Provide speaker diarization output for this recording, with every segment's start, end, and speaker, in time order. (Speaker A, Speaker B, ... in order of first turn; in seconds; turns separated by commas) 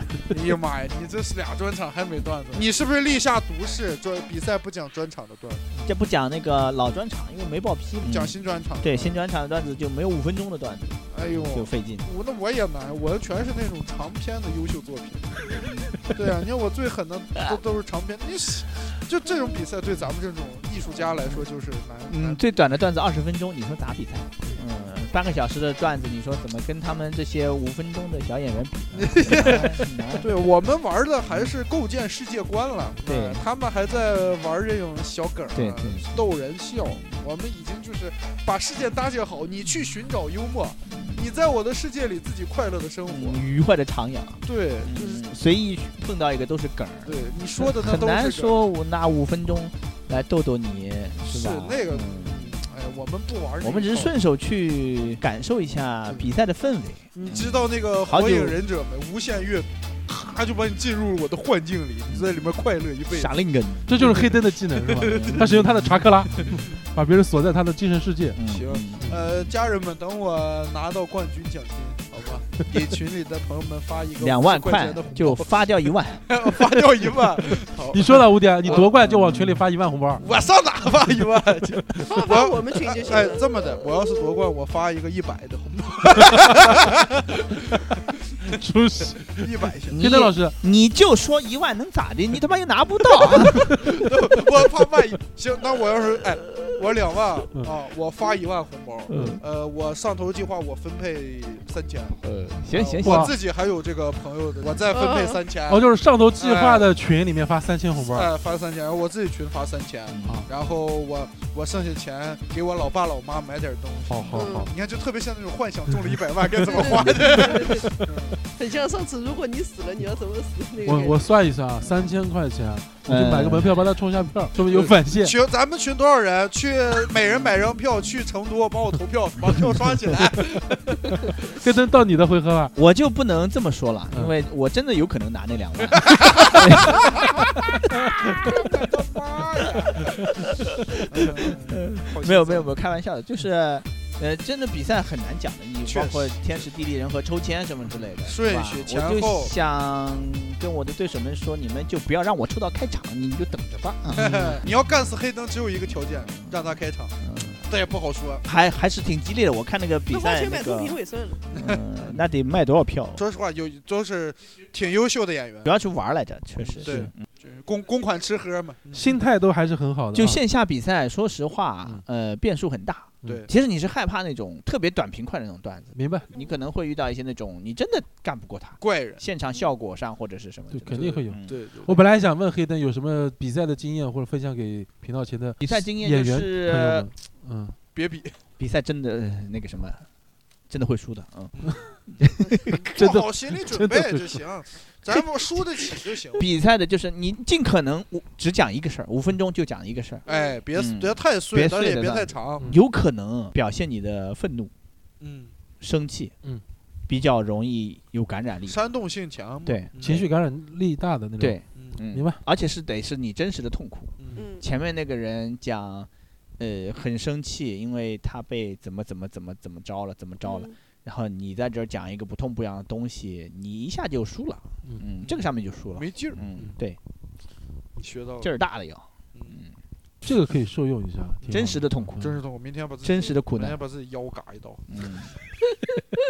Speaker A: 0.3-5.7, Speaker B: 5.7-12.1, Speaker A: 8.0-9.1, Speaker A: 11.1-22.4, Speaker B: 22.1-30.3, Speaker A: 28.9-43.4, Speaker B: 33.0-33.4, Speaker B: 35.5-36.2, Speaker B: 40.9-41.2, Speaker B: 43.0-52.5, Speaker A: 44.4-45.0, Speaker C: 45.0-45.2, Speaker A: 47.0-48.6, Speaker A: 51.3-54.1, Speaker B: 53.6-58.6, Speaker A: 57.1-63.3, Speaker B: 62.1-62.5, Speaker B: 63.1-64.0, Speaker D: 63.9-68.4, Speaker A: 63.9-65.6, Speaker B: 65.0-66.5, Speaker A: 66.4-66.7, Speaker B: 68.3-69.2, Speaker A: 68.5-75.5, Speaker B: 74.2-76.3, Speaker A: 76.3-79.1, Speaker D: 77.9-80.3, Speaker A: 80.2-88.6, Speaker C: 82.0-83.9, Speaker D: 88.4-90.6, Speaker A: 89.3-90.0, Speaker B: 89.9-93.8, Speaker D: 93.2-93.9, Speaker A: 93.7-102.2, Speaker D: 99.1-99.4, Speaker B: 102.2-103.3, Speaker D: 102.3-103.3, Speaker A: 102.7-105.8, Speaker C: 104.9-105.4, Speaker D: 105.7-108.3, Speaker A: 106.4-106.9, Speaker A: 108.0-118.3, Speaker B: 110.1-110.4, Speaker D: 114.1-114.7, Speaker C: 114.3-114.7, Speaker C: 116.7-117.9, Speaker D: 116.8-118.1, Speaker C: 118.5-121.3, Speaker D: 120.8-125.3, Speaker B: 123.0-123.9, Speaker A: 124.7-131.6, Speaker D: 131.1-132.7, Speaker B: 132.8-137.4, Speaker A: 135.9-140.4, Speaker B: 138.2-138.7, Speaker B: 140.4-154.7, Speaker A: 141.0-142.7, Speaker A: 145.8-146.3, Speaker A: 148.2-149.5, Speaker A: 154.1-158.4, Speaker B: 156.3-157.7, Speaker B: 158.4-161.0, Speaker C: 160.1-161.4, Speaker B: 161.5-163.2, Speaker A: 161.5-162.2, Speaker A: 163.2-165.7, Speaker B: 165.6-167.2, Speaker A: 166.6-169.1, Speaker D: 166.8-167.1, Speaker D: 168.9-170.4, Speaker B: 170.1-181.5, Speaker D: 175.9-176.3, Speaker A: 178.8-179.2, Speaker D: 180.7-187.8, Speaker A: 181.1-182.0, Speaker B: 185.6-187.1, Speaker A: 187.9-188.4, Speaker B: 188.6-190.0, Speaker B: 190.7-191.5, Speaker B: 192.1-192.9, Speaker A: 192.7-196.5, Speaker D: 192.9-194.4, Speaker B: 196.3-204.7, Speaker C: 200.3-200.6, Speaker A: 200.3-202.7, Speaker A: 205.2-205.5, Speaker B: 205.8-206.3, Speaker B: 207.1-208.8, Speaker A: 208.7-210.3, Speaker D: 210.0-212.4, Speaker B: 211.4-227.0, Speaker A: 214.2-214.5, Speaker C: 214.3-214.6, Speaker C: 220.4-220.8, Speaker A: 225.9-226.4, Speaker A: 228.0-228.5, Speaker B: 228.4-229.7, Speaker D: 230.2-232.4, Speaker A: 231.4-234.8, Speaker B: 231.5-232.4, Speaker B: 233.0-233.8, Speaker B: 234.9-235.3